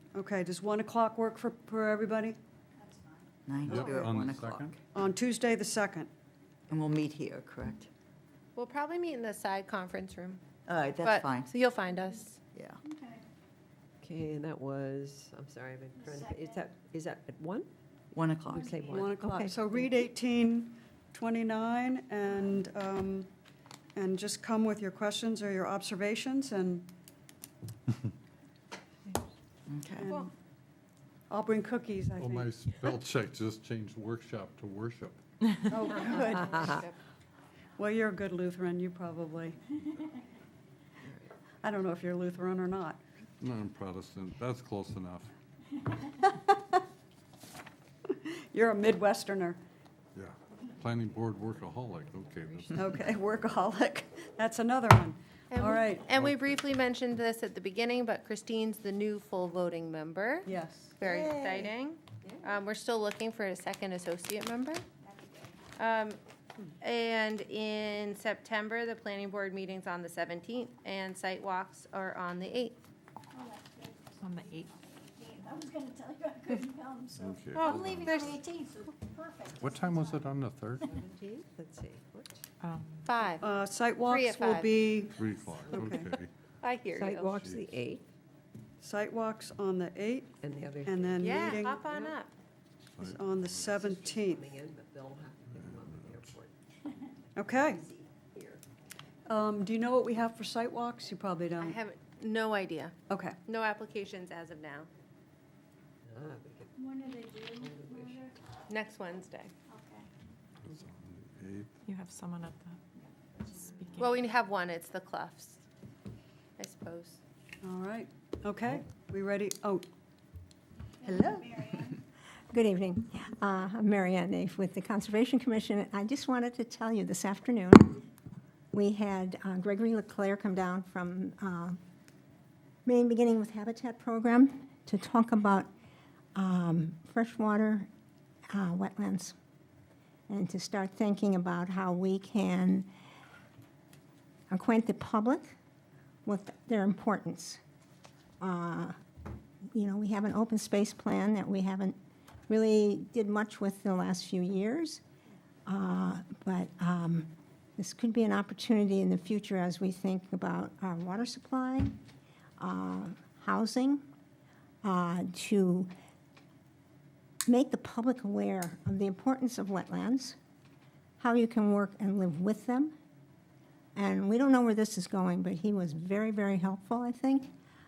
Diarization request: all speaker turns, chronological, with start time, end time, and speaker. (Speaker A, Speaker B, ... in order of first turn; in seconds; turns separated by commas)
Speaker A: 0.1-2.4, Speaker B: 3.5-4.8, Speaker A: 3.7-4.1, Speaker C: 3.7-4.7, Speaker A: 5.0-6.1, Speaker B: 6.7-7.9, Speaker D: 8.6-10.4, Speaker B: 10.7-11.5, Speaker D: 11.0-12.4, Speaker B: 12.5-12.8, Speaker E: 14.0-17.7, Speaker B: 18.1-19.1, Speaker E: 18.5-20.0, Speaker A: 18.9-23.3, Speaker A: 24.0-26.9, Speaker B: 29.7-30.1, Speaker A: 30.0-30.3, Speaker A: 31.3-32.5, Speaker C: 32.2-35.2, Speaker A: 35.7-36.8, Speaker D: 36.0-37.0, Speaker A: 37.8-39.6, Speaker A: 41.6-43.0, Speaker C: 43.4-45.3, Speaker A: 46.2-46.6, Speaker A: 48.1-49.6, Speaker C: 50.1-53.1, Speaker A: 52.8-56.1, Speaker D: 55.5-64.8, Speaker C: 56.1-56.5, Speaker A: 60.5-60.9, Speaker D: 65.8-66.2, Speaker D: 66.8-72.8, Speaker F: 74.2-74.7, Speaker G: 74.7-77.0, Speaker C: 77.1-78.4, Speaker D: 77.5-78.4, Speaker C: 79.6-80.9, Speaker E: 80.8-82.4, Speaker F: 82.6-83.1, Speaker D: 83.1-83.5, Speaker A: 83.4-85.2, Speaker D: 84.0-84.7, Speaker C: 85.2-86.3, Speaker A: 85.7-86.1, Speaker D: 86.6-87.3, Speaker E: 86.9-88.0, Speaker C: 87.3-87.7, Speaker A: 88.8-91.9, Speaker E: 90.4-92.2, Speaker D: 91.2-92.3, Speaker C: 93.0-93.8, Speaker A: 93.0-94.5, Speaker E: 93.6-96.5, Speaker C: 95.5-96.2, Speaker A: 97.4-97.8, Speaker E: 97.9-98.6, Speaker A: 99.3-101.8, Speaker D: 101.6-103.0, Speaker A: 103.1-103.4, Speaker D: 103.5-104.9, Speaker E: 106.1-108.3, Speaker G: 107.0-107.3, Speaker D: 108.7-109.5, Speaker C: 110.7-111.7, Speaker F: 111.9-112.8, Speaker D: 114.0-115.6, Speaker D: 116.6-117.2, Speaker A: 117.6-119.8, Speaker A: 121.0-121.9, Speaker H: 122.5-128.1, Speaker H: 128.7-131.8, Speaker H: 132.9-135.7, Speaker H: 136.4-137.9, Speaker H: 138.5-139.3, Speaker H: 140.3-142.9, Speaker H: 144.5-145.6, Speaker H: 146.3-147.6, Speaker H: 148.4-148.9, Speaker H: 149.7-152.0, Speaker H: 152.5-155.0, Speaker H: 155.7-162.0, Speaker H: 162.6-164.0, Speaker H: 164.8-165.9, Speaker H: 167.5-170.4, Speaker H: 171.2-172.9, Speaker H: 173.9-177.5